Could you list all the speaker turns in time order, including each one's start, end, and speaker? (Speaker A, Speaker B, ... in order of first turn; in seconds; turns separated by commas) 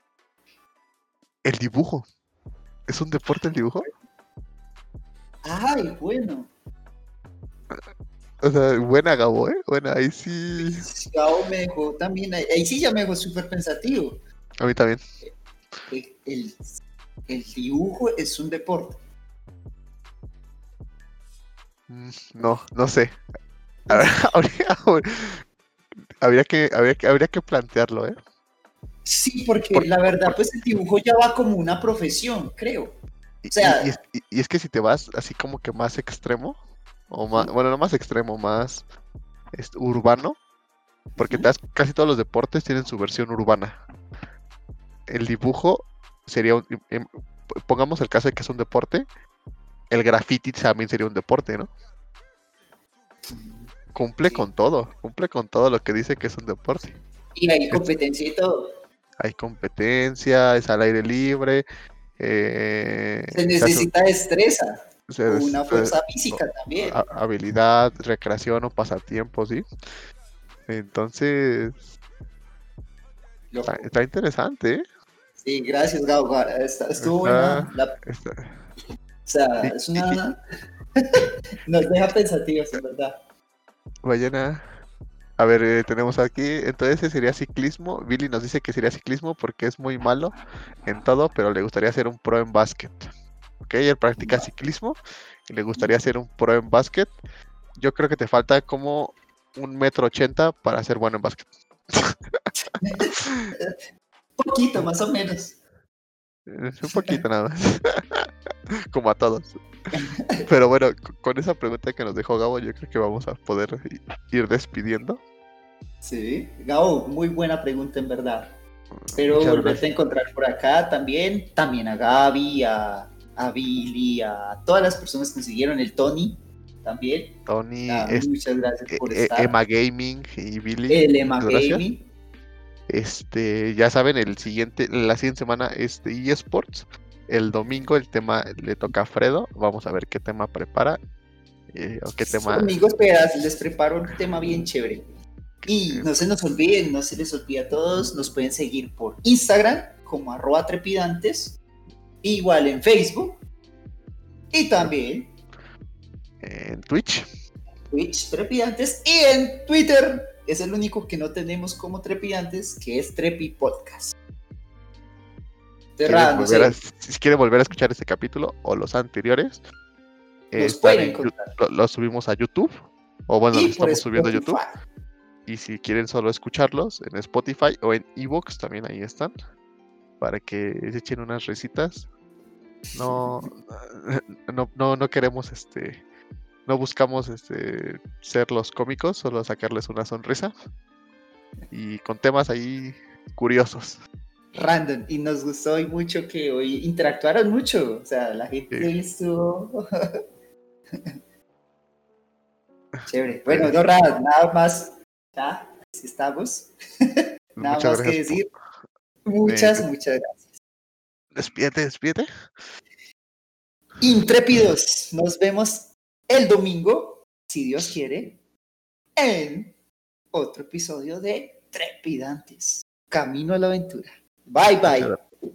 Speaker A: 1.4-2.0, Speaker A: 2.9-3.9, Speaker B: 5.4-6.5, Speaker A: 8.4-10.9, Speaker B: 10.6-14.2, Speaker A: 14.6-15.0, Speaker B: 15.9-19.0, Speaker A: 21.9-23.2, Speaker B: 23.9-24.1, Speaker A: 23.9-25.4, Speaker A: 26.2-28.2, Speaker B: 29.1-33.0, Speaker A: 29.7-30.4, Speaker A: 33.4-36.6, Speaker B: 33.5-33.9, Speaker A: 37.1-38.8, Speaker A: 39.5-40.4, Speaker B: 41.1-41.5, Speaker A: 41.2-43.8, Speaker A: 45.1-49.0, Speaker A: 49.9-51.7, Speaker B: 53.3-53.7, Speaker A: 53.9-57.0, Speaker B: 54.2-54.5, Speaker B: 57.3-58.7, Speaker A: 59.2-61.6, Speaker A: 62.2-63.9, Speaker B: 63.3-67.0, Speaker A: 65.1-69.7, Speaker A: 70.7-71.9, Speaker B: 73.5-73.9, Speaker A: 73.7-74.8, Speaker B: 75.4-77.9, Speaker A: 77.0-78.6, Speaker B: 79.2-80.3, Speaker A: 79.6-80.2, Speaker B: 81.0-83.2, Speaker A: 84.0-84.7, Speaker A: 85.4-90.3, Speaker A: 90.8-93.1, Speaker A: 93.6-97.1, Speaker B: 94.2-94.5, Speaker A: 97.8-102.5, Speaker B: 102.8-103.8, Speaker A: 103.2-103.5, Speaker B: 104.4-105.5, Speaker A: 106.5-108.3, Speaker B: 106.9-107.2, Speaker A: 108.9-109.6, Speaker B: 109.9-110.5, Speaker A: 110.5-115.2, Speaker B: 116.0-118.5, Speaker A: 118.9-119.8, Speaker B: 119.1-127.3, Speaker A: 127.5-128.3, Speaker B: 127.9-129.5, Speaker A: 128.9-131.8, Speaker B: 130.9-132.0, Speaker A: 132.9-141.0, Speaker A: 141.7-142.7, Speaker B: 142.3-145.1, Speaker A: 145.6-146.1, Speaker B: 145.7-151.6, Speaker B: 152.2-153.4, Speaker B: 154.5-155.3, Speaker A: 156.4-157.3, Speaker B: 157.9-164.1, Speaker B: 166.0-166.8, Speaker A: 166.1-169.6, Speaker A: 170.5-174.6, Speaker B: 170.6-171.5, Speaker B: 173.5-174.7, Speaker A: 175.5-179.3, Speaker A: 180.2-182.1, Speaker B: 182.9-183.5, Speaker A: 182.9-186.0, Speaker A: 186.7-190.5, Speaker A: 191.7-194.0, Speaker B: 194.5-199.8, Speaker B: 203.1-208.5, Speaker A: 203.3-203.8, Speaker A: 207.6-208.5, Speaker B: 209.2-210.4, Speaker A: 209.4-209.8, Speaker A: 211.3-212.3, Speaker B: 214.0-218.4, Speaker B: 219.2-219.7, Speaker B: 220.3-225.1, Speaker A: 224.9-225.2